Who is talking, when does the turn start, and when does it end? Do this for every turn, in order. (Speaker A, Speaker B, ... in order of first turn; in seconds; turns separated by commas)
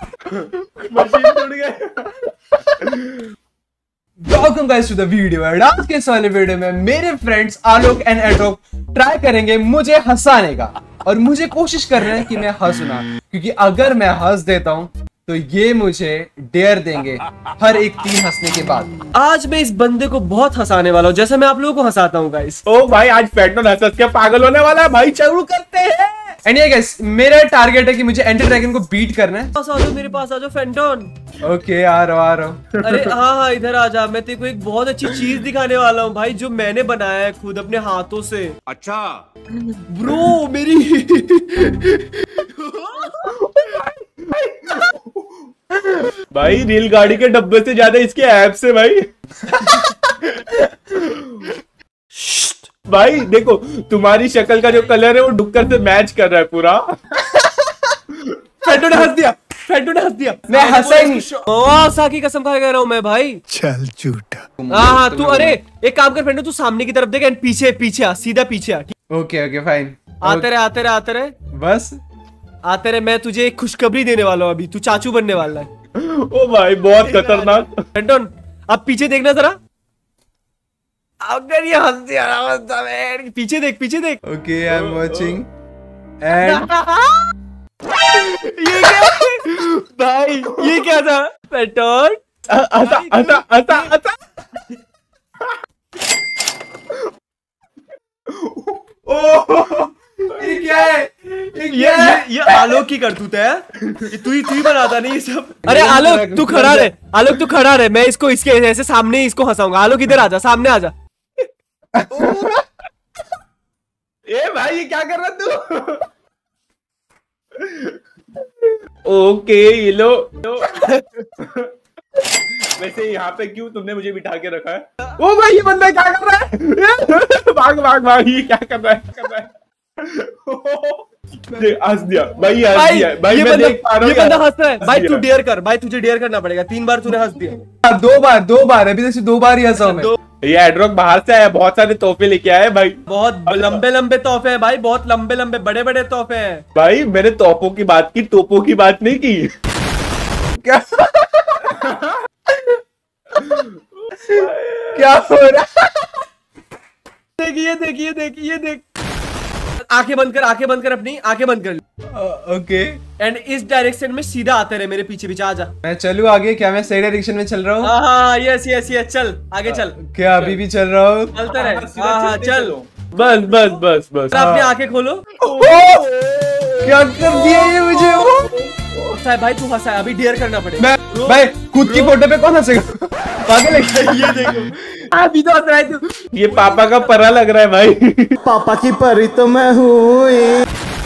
Speaker A: 0.3-2.1, Speaker A: 2.8-3.2, Speaker B: 4.2-18.9, Speaker C: 19.1-22.6, Speaker A: 22.6-26.4, Speaker B: 26.4-29.5, Speaker C: 29.5-31.1, Speaker B: 31.4-32.6, Speaker C: 32.8-38.5, Speaker A: 38.7-39.2, Speaker C: 39.9-43.3, Speaker A: 43.4-45.2, Speaker B: 45.8-46.2, Speaker A: 46.3-49.1, Speaker B: 49.5-51.0, Speaker A: 51.0-51.5, Speaker C: 52.1-52.7, Speaker A: 52.9-56.9, Speaker B: 57.4-57.8, Speaker C: 58.6-63.4, Speaker B: 60.5-61.2, Speaker D: 63.5-64.5, Speaker B: 64.6-65.6, Speaker C: 64.7-68.9, Speaker B: 69.1-70.5, Speaker C: 70.2-71.3, Speaker B: 71.5-72.0, Speaker C: 72.7-75.7, Speaker A: 75.9-77.8, Speaker C: 77.0-79.6, Speaker C: 81.2-84.2, Speaker B: 84.2-85.5, Speaker A: 84.7-85.4, Speaker B: 86.2-86.7, Speaker C: 86.4-87.3, Speaker C: 88.1-92.2, Speaker A: 92.5-94.2, Speaker C: 92.8-93.9, Speaker A: 98.3-98.8, Speaker B: 99.0-102.8, Speaker C: 101.7-110.9, Speaker B: 105.6-106.9, Speaker B: 111.9-112.6, Speaker A: 114.3-116.0, Speaker A: 117.5-118.0, Speaker A: 119.0-121.7, Speaker A: 122.5-135.2, Speaker C: 132.7-137.6, Speaker B: 137.8-140.1, Speaker C: 139.7-140.2, Speaker A: 140.4-143.8, Speaker C: 143.1-146.6, Speaker A: 146.7-149.5, Speaker B: 150.6-151.8, Speaker A: 151.7-152.2, Speaker B: 152.5-152.8, Speaker A: 153.4-155.2, Speaker B: 154.3-156.2, Speaker C: 157.4-158.8, Speaker C: 159.8-161.8, Speaker B: 162.1-163.0, Speaker C: 163.2-165.7, Speaker B: 165.8-167.9, Speaker C: 167.8-169.9, Speaker B: 170.0-171.4, Speaker C: 171.3-172.7, Speaker A: 171.5-174.7, Speaker C: 174.3-175.2, Speaker A: 175.4-179.2, Speaker B: 175.6-176.0, Speaker B: 176.8-178.5, Speaker C: 179.2-182.1, Speaker B: 180.8-184.5, Speaker C: 183.8-184.7, Speaker A: 184.4-188.4, Speaker C: 186.4-187.2, Speaker D: 188.4-190.6